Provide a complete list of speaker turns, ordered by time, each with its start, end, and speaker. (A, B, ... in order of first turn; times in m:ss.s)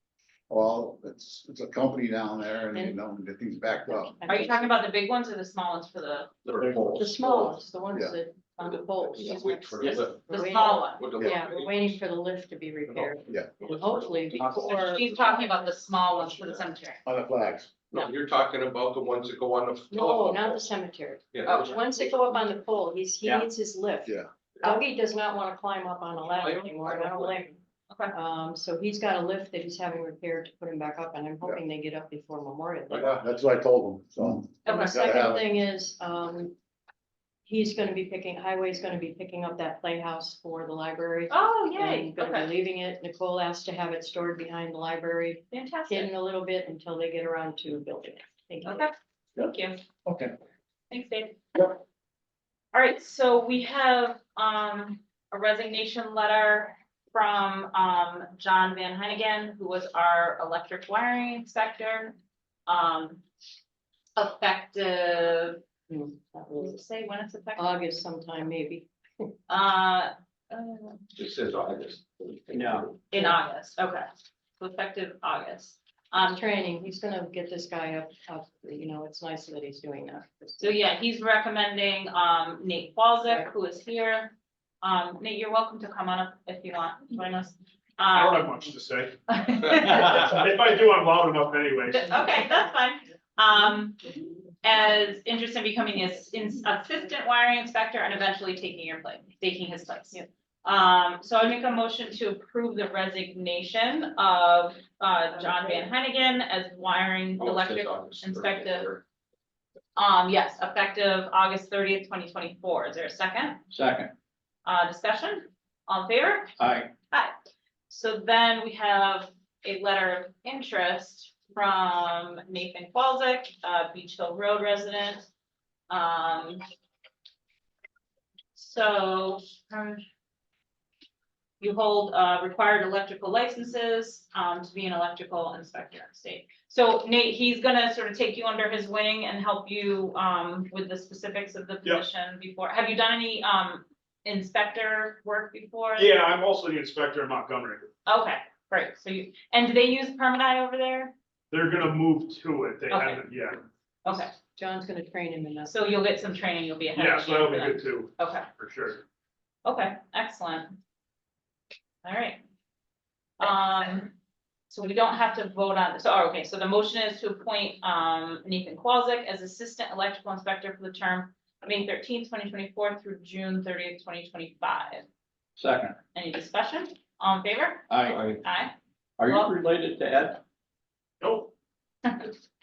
0:00.5-0:04.2 A
0:03.9-0:04.8 B
0:04.3-0:06.3 C
0:06.5-0:07.6 D
0:06.6-0:07.0 E
0:07.0-0:15.6 B
0:08.6-0:12.0 D
0:09.8-0:11.1 C
0:12.9-0:15.3 D
0:14.4-0:14.7 E
0:14.7-0:17.0 C
0:16.1-0:16.7 D
0:17.0-0:17.7 A
0:17.9-0:20.7 D
0:19.9-0:27.6 B
0:21.3-0:22.4 D
0:21.4-0:21.7 C
0:24.6-0:24.8 D
0:26.2-0:27.4 D
0:28.1-0:33.1 B
0:32.9-0:33.2 D
0:33.0-0:35.5 A
0:34.7-0:35.0 C
0:34.7-0:36.6 B
0:37.4-0:48.9 B
0:41.3-0:42.5 C
0:45.5-0:46.1 C
0:48.6-0:49.8 C
0:50.0-0:50.3 A
0:50.9-0:51.4 C
0:52.7-1:03.2 C
1:04.2-1:05.6 C
1:05.9-1:06.8 B
1:06.6-1:07.7 C
1:07.6-1:09.3 B
1:09.5-1:11.0 C
1:11.2-1:13.0 D
1:12.5-1:12.9 E
1:13.1-1:14.1 C
1:13.1-1:13.4 B
1:14.6-1:16.4 C
1:16.2-1:20.9 B
1:20.6-1:28.7 C
1:28.1-1:29.2 F
1:29.3-1:30.5 C
1:30.1-1:32.1 F
1:31.8-1:34.0 C
1:34.6-1:48.9 C
1:47.4-1:49.0 D
1:50.0-1:53.6 C
1:53.7-1:54.1 E
1:54.6-1:56.5 C
1:56.6-1:56.9 E
1:57.9-2:05.3 C
2:05.9-2:06.6 C
2:08.6-2:10.0 C
2:11.6-2:26.2 C
2:26.0-2:27.9 F
2:28.1-2:31.1 C
2:31.5-2:33.6 F
2:32.9-2:33.2 C
2:34.0-2:34.3 C
2:34.6-2:35.8 B
2:35.7-2:38.5 C
2:37.0-2:39.0 F
2:39.6-2:40.8 C
2:42.0-2:42.4 C
2:43.4-2:44.1 C
2:44.7-2:55.0 C
2:55.6-2:56.0 E
2:56.2-2:57.9 C
2:57.9-2:58.4 E
2:58.1-2:58.4 D
2:58.4-2:58.7 C
2:59.2-3:00.4 E
3:01.2-3:01.5 F